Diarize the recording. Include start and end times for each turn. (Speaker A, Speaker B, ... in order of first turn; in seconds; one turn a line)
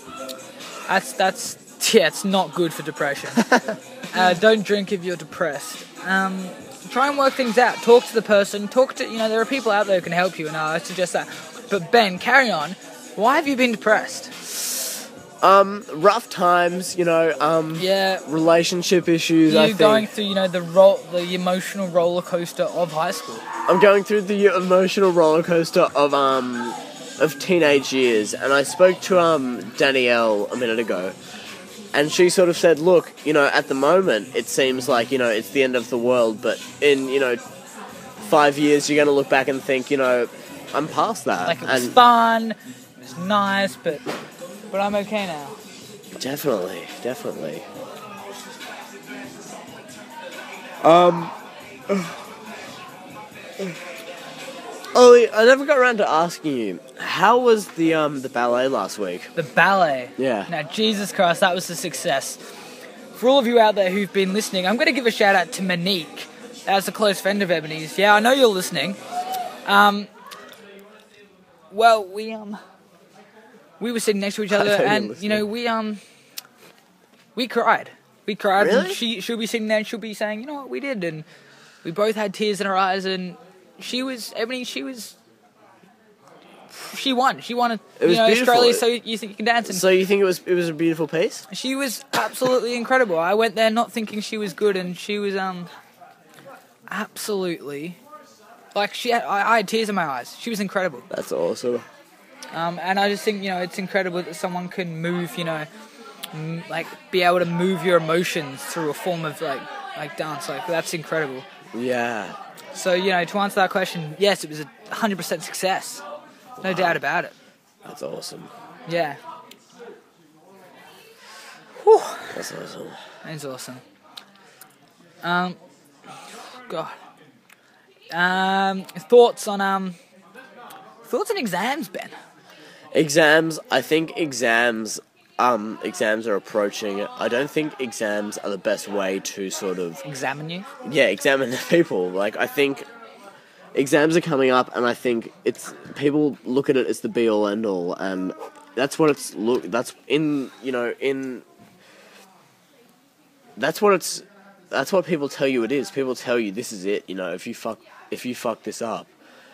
Speaker A: 0.8-3.5
Speaker A: 4.1-14.4
Speaker B: 15.4-20.1
Speaker A: 17.8-18.2
Speaker A: 19.5-23.4
Speaker B: 23.7-31.1
Speaker B: 31.9-37.4
Speaker B: 38.2-42.0
Speaker A: 41.4-44.0
Speaker A: 44.7-45.6
Speaker B: 46.1-47.6
Speaker B: 50.8-51.3
Speaker B: 51.9-52.1
Speaker B: 54.9-59.3
Speaker A: 59.4-62.4
Speaker B: 60.2-60.5
Speaker A: 63.1-69.0
Speaker A: 69.7-70.1
Speaker A: 71.7-72.6
Speaker A: 73.8-76.0
Speaker B: 74.5-75.4
Speaker A: 77.3-81.2
Speaker B: 78.6-79.0
Speaker A: 81.8-85.2
Speaker A: 86.8-89.8
Speaker B: 88.0-88.8
Speaker B: 89.7-91.5
Speaker A: 91.5-95.7
Speaker A: 96.9-98.0
Speaker A: 98.7-101.0
Speaker B: 101.1-101.8
Speaker A: 102.5-105.7
Speaker A: 106.3-111.5
Speaker B: 111.7-112.3
Speaker A: 112.7-116.0
Speaker B: 116.6-117.0
Speaker A: 116.6-117.3
Speaker B: 117.8-118.5
Speaker A: 118.9-119.2
Speaker A: 121.8-122.3
Speaker B: 122.3-123.0
Speaker A: 123.2-123.8
Speaker A: 125.2-125.6
Speaker A: 126.7-126.9
Speaker A: 128.1-130.0
Speaker A: 131.1-132.1
Speaker B: 132.9-140.0
Speaker A: 140.0-140.7
Speaker B: 140.8-142.9
Speaker B: 143.7-151.4
Speaker B: 153.6-159.1